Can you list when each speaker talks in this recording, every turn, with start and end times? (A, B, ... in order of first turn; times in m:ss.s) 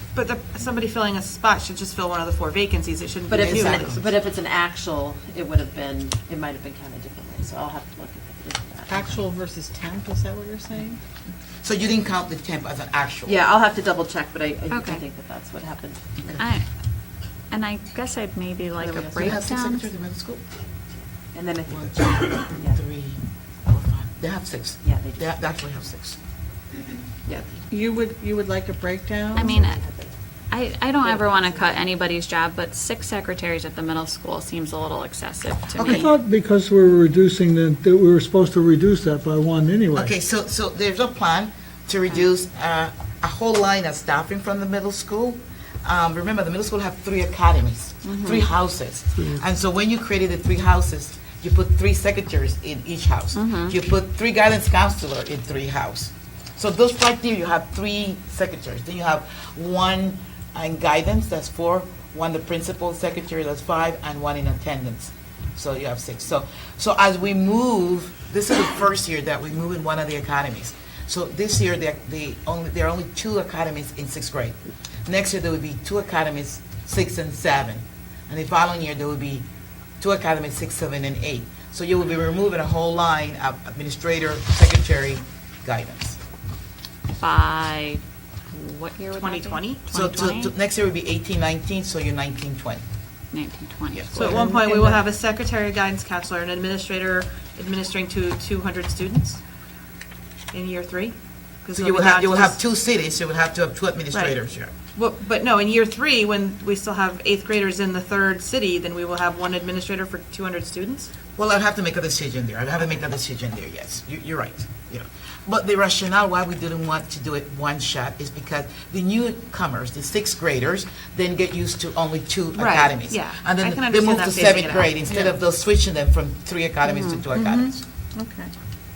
0:00.1-0:04.0 A
0:03.3-0:09.2 B
0:03.3-0:04.1 C
0:08.9-0:11.0 D
0:11.6-0:13.4 C
0:13.2-0:16.4 B
0:14.7-0:15.0 E
0:16.4-0:16.6 E
0:17.5-0:19.9 E
0:18.8-0:19.4 B
0:19.2-0:20.4 C
0:21.3-0:22.8 B
0:21.7-0:26.2 C
0:24.8-0:25.3 B
0:27.3-0:27.7 B
0:27.7-0:29.6 D
0:29.3-0:29.8 E
0:29.4-0:30.1 B
0:30.5-0:36.1 E
0:31.0-0:31.7 B
0:35.8-0:36.1 C
0:35.9-0:40.1 F
0:39.9-1:19.4 C
0:48.0-0:48.5 E
0:53.3-0:53.8 E
1:20.0-1:26.2 C
1:27.1-1:30.5 E
1:29.2-1:29.8 A
1:29.9-1:32.8 C
1:33.3-1:34.5 E
1:33.9-1:34.5 C
1:34.1-1:39.4 A
1:40.5-1:42.6 A
1:41.7-1:44.7 C
1:44.1-1:44.4 A
1:44.9-1:51.1 A
1:51.4-2:07.8 C
2:02.5-2:05.4 A
2:06.8-2:07.2 E
2:08.2-2:08.5 D